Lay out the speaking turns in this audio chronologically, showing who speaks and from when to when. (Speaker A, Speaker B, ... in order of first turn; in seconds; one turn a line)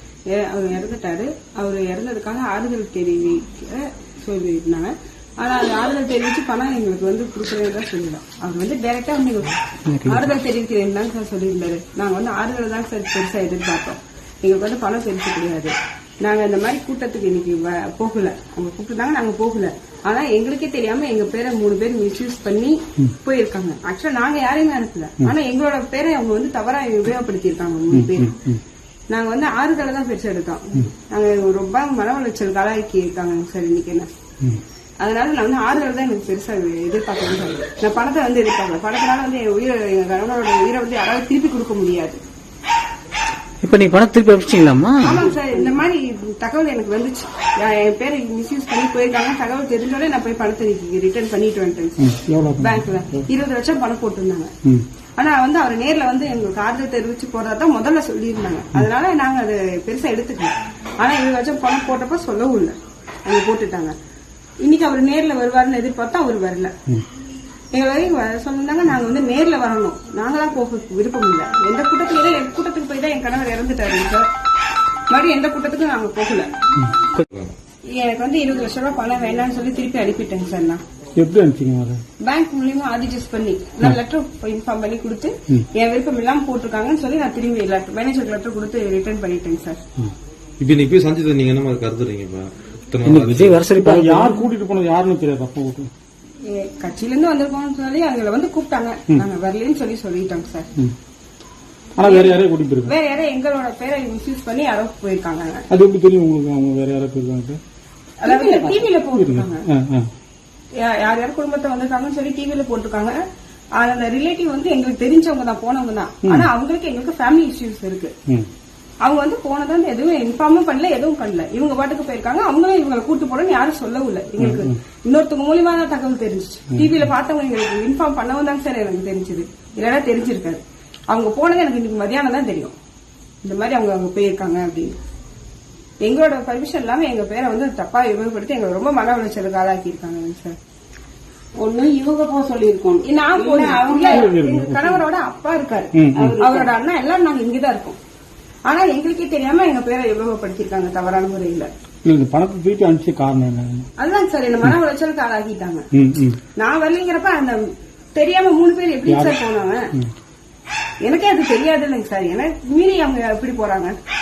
Speaker A: 0.3-28.3
Speaker B: 9.9-10.3
Speaker C: 27.9-28.6
Speaker A: 29.1-34.1
Speaker A: 35.0-42.2
Speaker B: 43.6-45.2
Speaker A: 45.0-54.5
Speaker C: 52.0-53.3
Speaker A: 55.2-63.9
Speaker A: 64.6-66.7
Speaker A: 67.7-74.2
Speaker A: 75.1-76.5
Speaker A: 77.9-80.8
Speaker C: 81.2-82.0
Speaker A: 82.2-89.8
Speaker D: 90.6-93.6
Speaker B: 93.0-94.4
Speaker C: 93.7-95.9
Speaker A: 96.5-100.7
Speaker C: 102.0-102.9
Speaker A: 102.0-105.7
Speaker C: 105.7-107.6
Speaker A: 108.2-109.6
Speaker E: 108.2-108.8
Speaker C: 109.1-110.1
Speaker A: 110.8-113.2
Speaker A: 113.8-118.1
Speaker C: 116.2-116.5
Speaker A: 119.0-132.7
Speaker C: 124.4-124.7
Speaker A: 133.4-135.0
Speaker A: 136.0-140.6
Speaker E: 141.6-144.3
Speaker A: 143.0-148.0
Speaker C: 144.0-145.0
Speaker C: 145.9-146.4
Speaker E: 146.1-146.7
Speaker A: 148.7-151.7
Speaker C: 152.0-153.9
Speaker A: 154.0-155.9
Speaker C: 155.9-156.4
Speaker A: 156.6-159.9
Speaker C: 159.1-159.4
Speaker A: 161.0-163.9